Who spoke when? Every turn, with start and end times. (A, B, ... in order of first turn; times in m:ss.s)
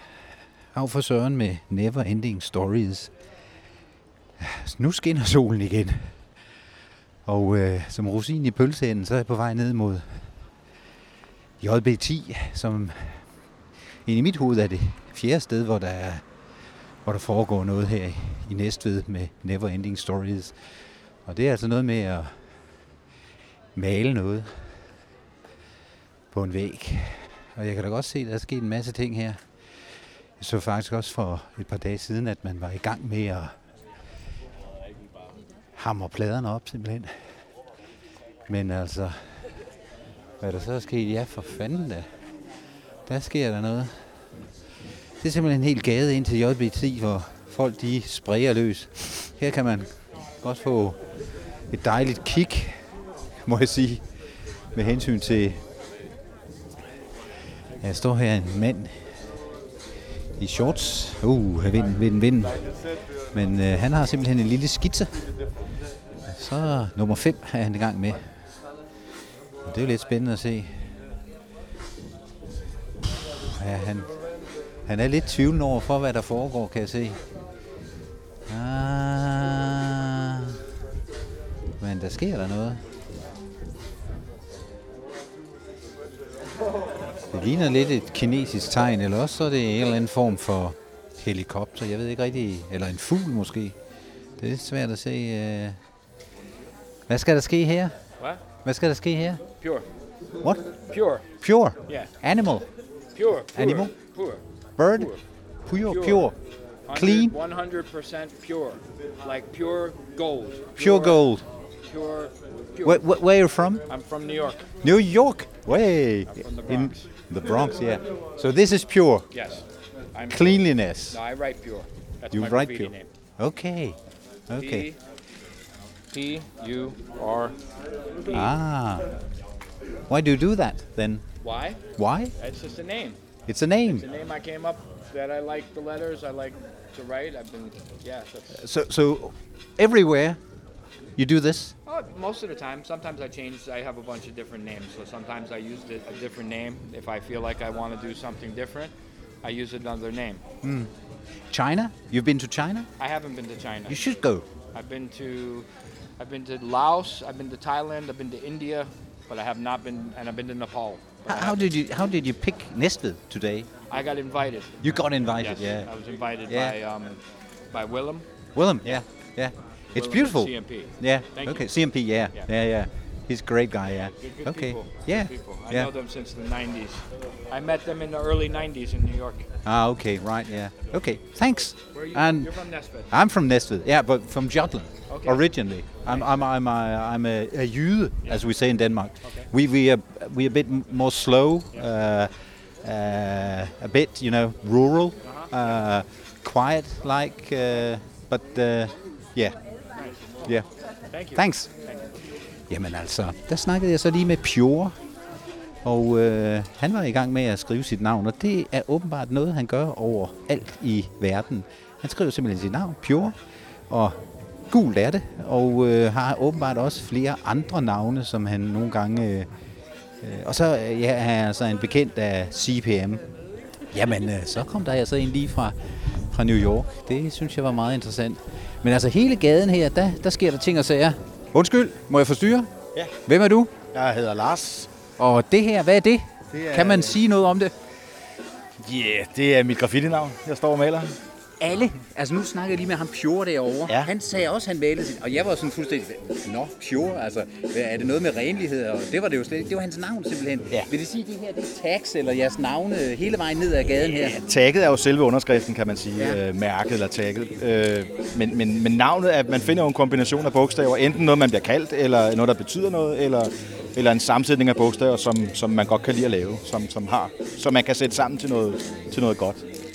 0:00.7-0:03.1 A
0:04.4-0:06.1 A
0:07.2-0:10.3 A
0:11.6-0:13.2 A
0:14.0-0:16.2 A
0:17.0-0:20.5 A
0:21.2-0:22.3 A
0:23.8-0:24.5 A
0:26.3-0:29.4 A
0:30.4-0:33.5 A
0:35.8-0:37.1 A
0:38.5-0:39.2 A
0:40.4-0:42.0 A
0:43.1-0:43.9 A
0:45.2-0:49.9 A
0:50.4-0:51.0 A
0:51.7-0:52.8 A
0:53.4-0:54.0 A
0:54.7-0:55.6 A
0:57.8-0:59.0 A
1:00.4-1:02.6 A
1:03.3-1:05.2 A
1:06.3-1:08.2 A
1:09.6-1:10.7 A
1:13.5-1:14.1 A
1:14.9-1:17.2 A
1:18.5-1:20.6 A
1:21.8-1:22.8 A
1:27.3-1:33.7 A
1:34.4-1:35.8 A
1:37.1-1:37.9 A
1:38.6-1:39.4 A
1:39.6-1:39.9 B
1:40.9-1:41.2 B
1:41.4-1:42.6 A
1:41.8-1:42.1 B
1:43.1-1:45.2 B
1:43.5-1:43.9 A
1:44.8-1:45.1 A
1:45.6-1:46.3 A
1:45.8-1:46.3 B
1:46.9-1:51.2 B
1:46.9-1:47.4 A
1:50.8-1:51.4 A
1:51.9-1:53.0 B
1:52.8-1:53.8 A
1:53.9-1:54.7 B
1:54.8-1:59.3 A
1:56.3-1:57.0 B
1:59.3-2:03.1 B
2:00.3-2:01.2 A
2:02.3-2:04.0 A
2:04.5-2:04.9 A
2:04.5-2:05.0 B
2:06.1-2:07.6 B
2:08.2-2:08.6 B
2:08.3-2:09.1 A
2:10.1-2:11.2 A
2:11.4-2:11.8 B
2:12.0-2:12.3 A
2:12.4-2:13.2 B
2:13.5-2:14.0 A
2:13.8-2:18.6 B
2:18.5-2:20.4 A
2:21.2-2:21.7 A
2:21.8-2:30.4 B
2:30.6-2:30.9 A
2:31.5-2:32.9 A
2:33.0-2:34.1 B
2:33.9-2:34.4 A
2:34.7-2:35.7 B
2:36.2-2:41.6 B
2:41.3-2:43.7 A
2:43.9-2:47.2 B
2:44.8-2:45.9 A
2:46.5-2:46.8 A
2:47.7-2:48.3 B
2:48.5-2:55.9 A
2:49.9-2:51.7 B
2:54.1-2:59.4 B
2:59.6-3:02.5 A
3:01.9-3:03.1 B
3:03.1-3:12.3 A
3:05.1-3:06.4 B
3:09.2-3:09.5 B
3:12.8-3:19.6 A
3:15.2-3:15.5 B
3:20.0-3:20.3 B
3:21.1-3:22.1 B
3:21.3-3:21.7 A
3:22.7-3:24.9 A
3:25.8-3:33.3 A
3:33.9-3:34.2 A
3:34.7-3:39.5 A
3:40.2-3:43.2 A
3:43.9-3:45.8 A
3:46.3-3:52.7 A
3:53.2-3:53.8 A
3:53.9-3:54.9 C
3:55.2-3:57.7 A
3:56.5-3:57.2 C
3:58.8-4:01.1 C
4:01.6-4:14.4 A
4:14.2-4:29.6 C